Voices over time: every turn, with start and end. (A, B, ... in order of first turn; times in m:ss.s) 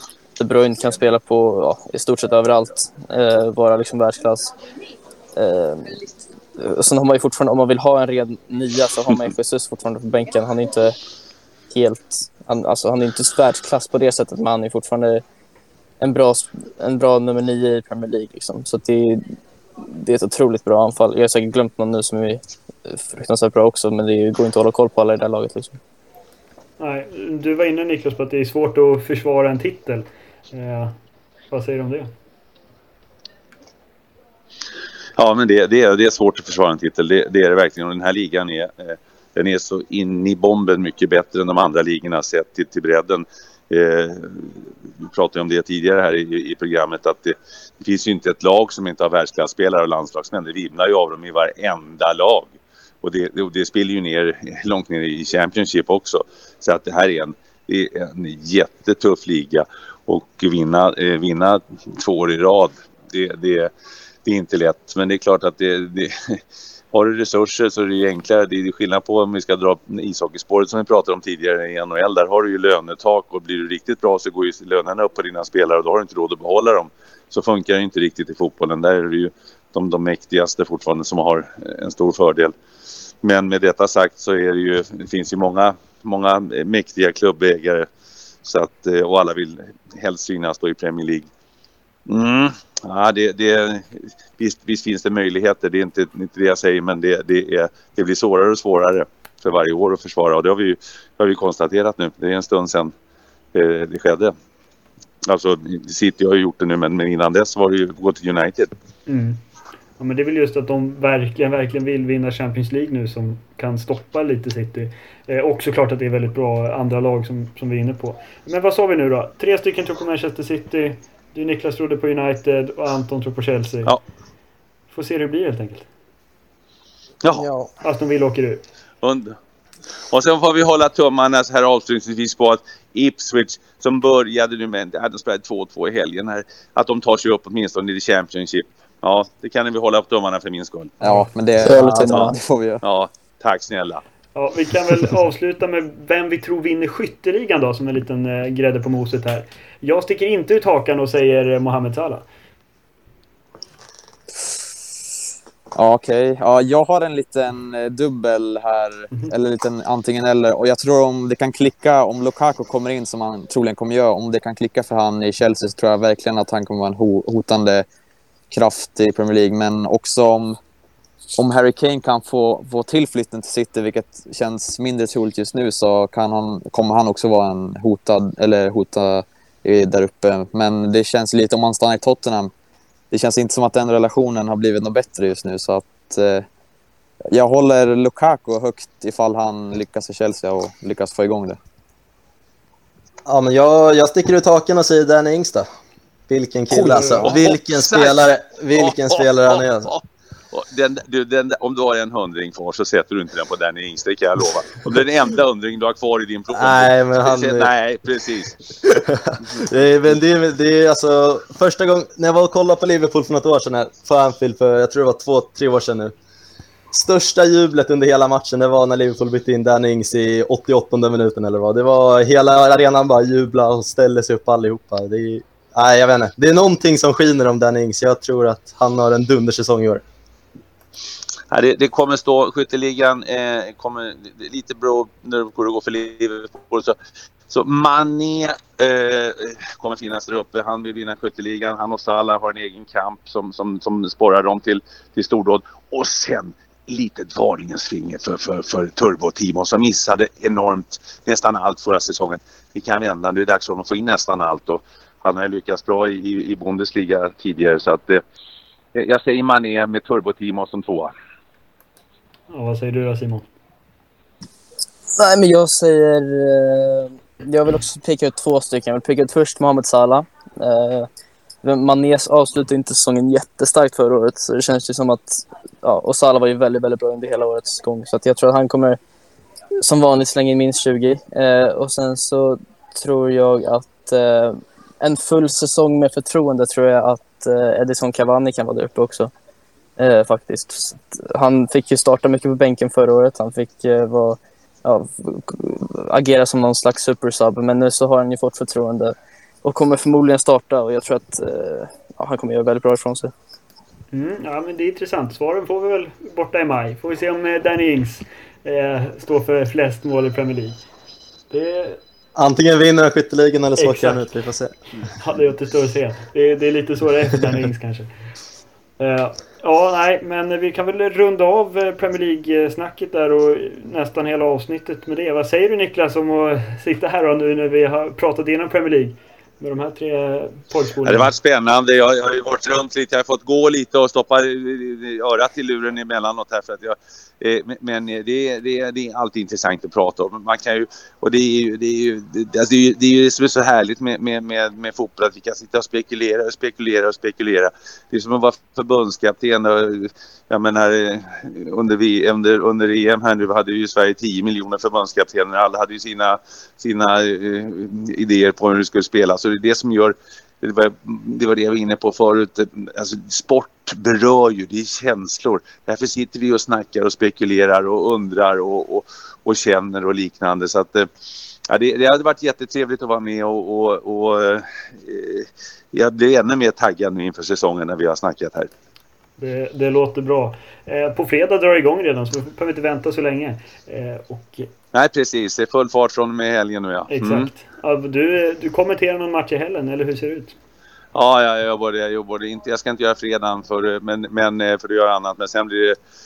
0:00.4-0:04.5 A
0:05.4-0:06.0 A
0:06.6-0:11.0 A
0:11.7-0:15.2 A
0:16.0-0:25.8 A
0:26.8-0:30.9 B
0:31.5-0:32.1 B
0:35.2-1:03.7 C
1:04.2-1:06.4 C
1:06.9-1:22.5 C
1:23.2-1:27.9 C
1:28.4-1:31.3 C
1:32.1-1:42.9 C
1:43.5-1:44.3 C
1:45.2-1:48.7 C
1:49.1-1:49.4 B
1:50.0-2:03.9 B
2:04.9-2:05.9 B
2:07.2-2:07.5 C
2:07.4-2:07.7 D
2:07.8-2:08.6 B
2:09.0-2:09.4 C
2:10.1-2:21.0 C
2:21.0-2:22.8 E
2:21.0-2:21.3 B
2:21.6-2:22.4 A
2:22.0-2:24.0 C
2:24.3-2:32.2 B
2:35.7-2:47.8 E
2:48.5-2:50.6 E
2:51.4-3:02.5 E
3:03.1-3:06.5 E
3:07.3-3:11.6 E
3:13.3-3:15.7 D
3:16.3-3:19.9 D
3:16.9-3:17.3 B
3:17.2-3:28.6 C
3:26.5-3:27.7 D
3:28.8-3:36.1 D
3:36.9-3:50.0 D
3:51.5-3:56.9 C
3:57.5-4:18.2 C
4:18.9-4:21.1 C
4:22.5-4:23.4 B
4:25.2-4:31.1 A
4:31.6-4:39.0 A
4:39.8-4:49.3 A
4:50.0-5:03.3 A
5:04.1-5:10.8 B
5:11.5-5:12.0 B
5:12.4-5:14.7 D
5:13.8-5:14.3 B
5:15.0-5:18.1 B
5:19.0-5:31.3 B
5:31.0-6:11.1 C
6:11.7-6:18.7 C
6:19.4-6:24.7 B
6:24.9-6:27.5 C
6:27.1-6:30.5 B
6:31.1-6:36.0 C